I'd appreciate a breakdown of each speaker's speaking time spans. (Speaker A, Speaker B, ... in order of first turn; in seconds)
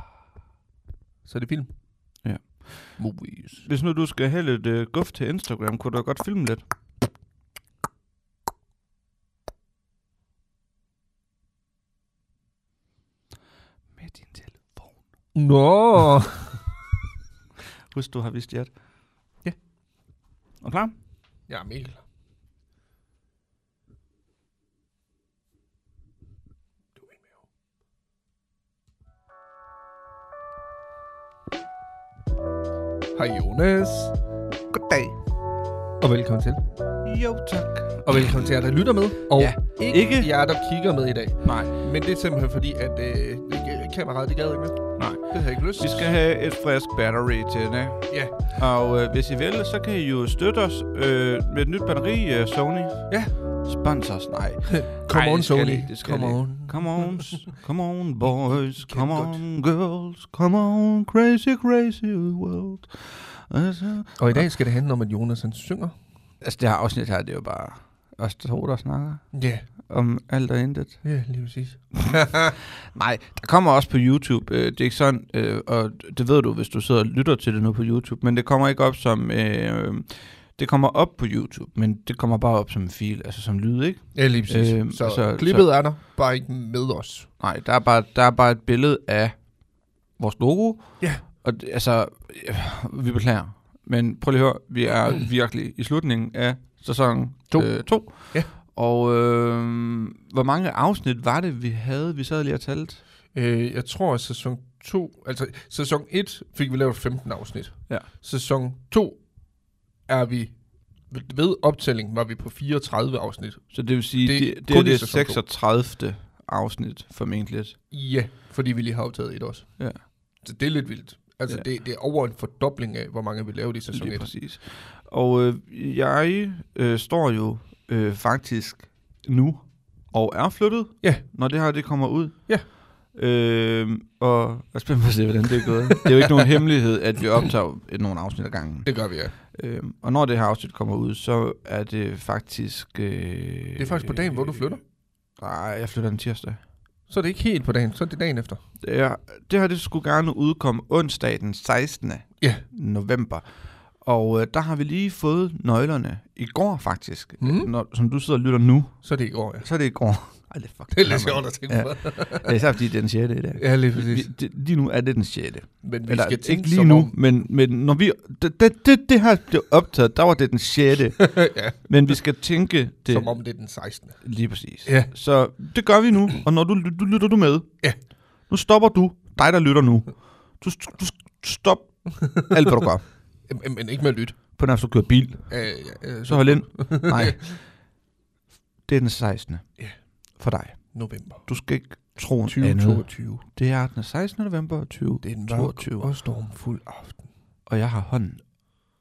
Speaker A: 1.2-1.7, 3.0-3.7, 15.3-16.6, 21.5-22.0, 27.0-27.4, 33.1-34.2, 36.0-36.7, 38.0-46.1, 48.1-48.5, 53.1-53.4, 54.7-57.5, 58.4-59.4, 64.2-66.0, 69.3-69.7, 71.0-72.5, 84.1-87.3, 97.5-98.5, 103.3-115.4, 117.9-124.3, 138.8-139.3, 143.8-144.8, 147.1-148.6, 152.4-152.6, 157.4-157.7, 159.0-159.7, 160.9-162.5, 163.6-164.3, 165.8-167.2, 171.2-172.2, 173.1-174.3, 174.8-175.1, 182.1-182.7, 183.4-184.4, 185.5-187.6, 190.9-191.5, 192.4-193.4, 195.2-197.3
Speaker B: 2.2-6.7, 14.0-14.9, 17.9-18.7, 20.6-20.9, 34.7-35.1, 37.0-38.3, 39.3-40.3, 41.4-41.7, 45.0-64.5, 66.4-71.0, 72.7-85.8, 87.4-103.0, 113.7-117.8, 119.8-120.0, 123.9-144.7, 145.3-146.6, 148.8-173.4, 174.2-183.1, 184.6-187.7, 188.8-189.8, 190.4-196.1, 197.7-198.4